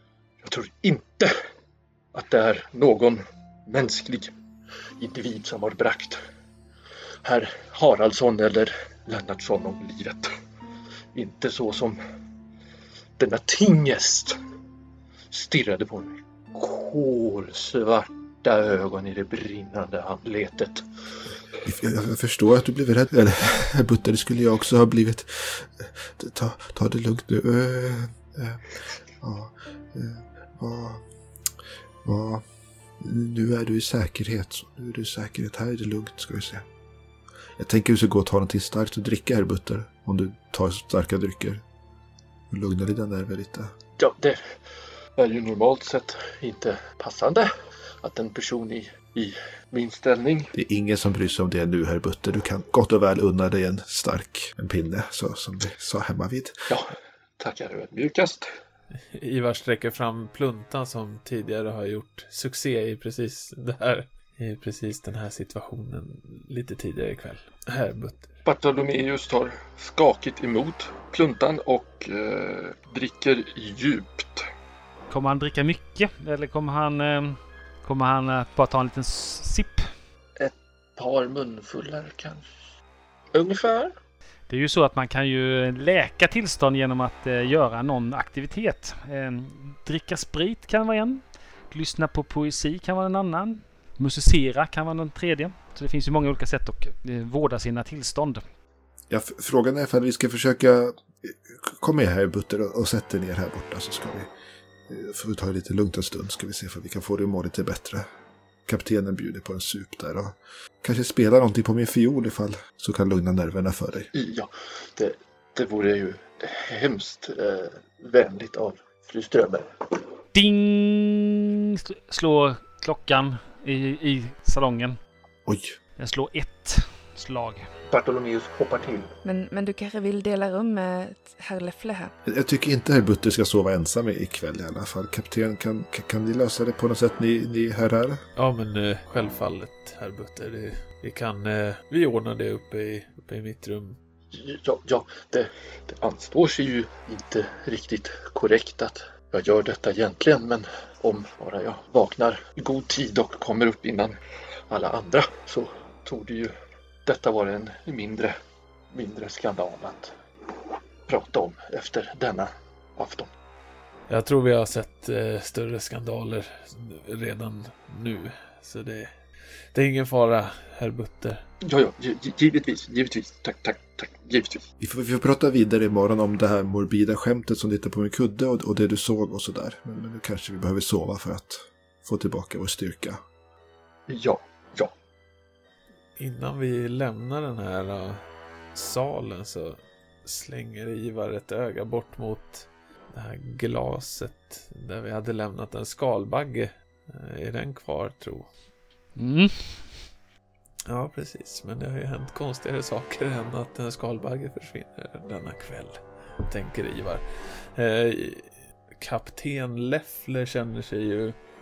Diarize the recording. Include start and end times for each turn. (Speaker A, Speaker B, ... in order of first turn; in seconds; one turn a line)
Speaker A: 0.4-1.4
Speaker A: 2.1-4.3
Speaker A: 5.0-6.2
Speaker A: 7.2-10.3
Speaker A: 11.1-12.0
Speaker A: 13.2-14.4
Speaker A: 15.3-20.9
Speaker B: 21.6-31.0
Speaker B: 32.0-32.4
Speaker B: 33.0-36.7
Speaker B: 37.6-41.6
Speaker B: 42.5-43.8
Speaker A: 44.0-44.4
Speaker A: 45.2-47.5
Speaker A: 48.0-50.5
Speaker B: 50.5-56.7
Speaker A: 56.7-58.5
Speaker C: 59.1-68.3
Speaker A: 68.5-74.5
Speaker D: 75.1-79.9
Speaker A: 80.4-82.5
Speaker A: 83.3-83.9
Speaker D: 84.5-98.4
Speaker B: 99.1-104.3
Speaker B: 104.9-108.0
Speaker B: 108.7-114.1
Speaker A: 114.1-119.7
Speaker D: 120.3-125.0
Speaker B: 125.5-125.8
Speaker D: 126.0-127.7
Speaker A: 127.9-129.1
Speaker E: 129.2-132.1
Speaker B: 132.2-138.2
Speaker C: 138.4-144.0
Speaker A: 144.3-154.2
Speaker A: 154.7-156.5
Speaker A: 157.1-158.4
Speaker A: 158.9-160.1
Speaker A: 161.1-163.3
Speaker C: 164.1-169.1
Speaker C: 169.7-171.4
Speaker A: 171.6-174.7
Speaker B: 174.8-183.2
Speaker A: 184.1-184.9
Speaker C: 186.2-188.2
Speaker C: 188.7-198.5
Speaker D: 199.2-200.1
Speaker C: 200.9-211.4